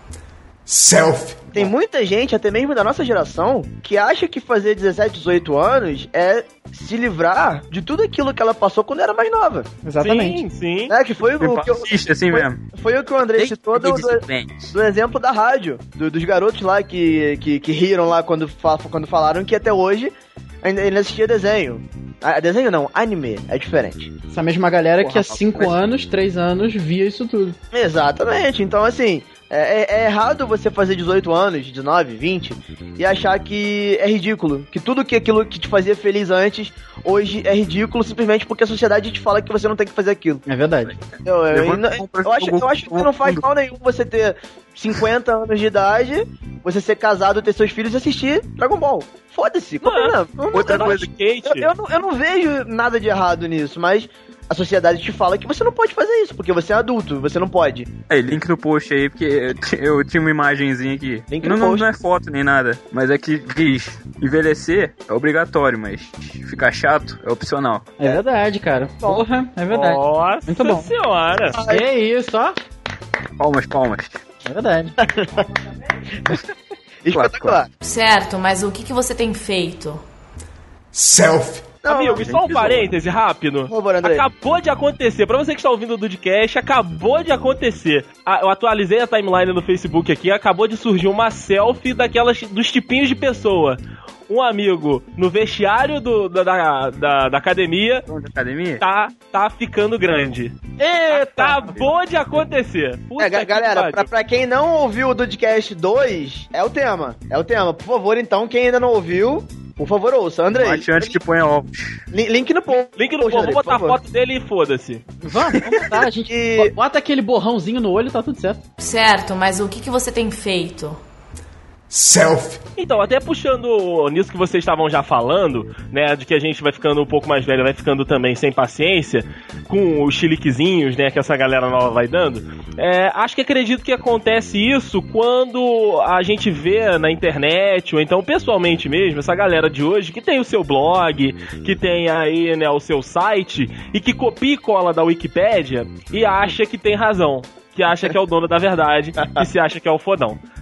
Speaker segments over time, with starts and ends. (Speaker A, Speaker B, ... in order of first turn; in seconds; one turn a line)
Speaker A: 0.7-1.6
Speaker B: 1.5-9.7
Speaker C: 9.8-10.4
Speaker D: 10.0-10.9
Speaker B: 10.9-24.1
Speaker E: 11.4-12.6
Speaker E: 13.3-14.7
Speaker C: 24.3-27.6
Speaker E: 25.0-25.8
Speaker B: 27.7-40.4
Speaker C: 40.5-40.9
Speaker E: 40.8-43.5
Speaker B: 41.2-57.9
Speaker D: 49.8-51.7
Speaker E: 50.5-51.1
Speaker E: 58.1-67.9
Speaker B: 61.3-61.9
Speaker C: 68.0-70.9
Speaker D: 69.7-71.5
Speaker B: 71.5-71.8
Speaker C: 71.7-72.6
Speaker E: 73.4-74.2
Speaker C: 74.5-74.9
Speaker B: 75.0-75.4
Speaker B: 77.0-77.7
Speaker E: 77.1-77.6
Speaker F: 77.8-80.0
Speaker A: 80.9-81.8
Speaker B: 81.8-82.8
Speaker D: 81.9-98.0
Speaker E: 82.1-82.9
Speaker B: 83.7-84.2
Speaker E: 98.1-98.8
Speaker D: 98.8-104.1
Speaker C: 100.8-101.8
Speaker B: 103.2-111.2
Speaker E: 110.5-112.0
Speaker B: 112.1-114.0
Speaker D: 113.0-115.0
Speaker C: 115.2-118.6
Speaker B: 116.3-116.7
Speaker F: 118.8-121.0
Speaker A: 121.9-122.6
Speaker D: 122.8-150.4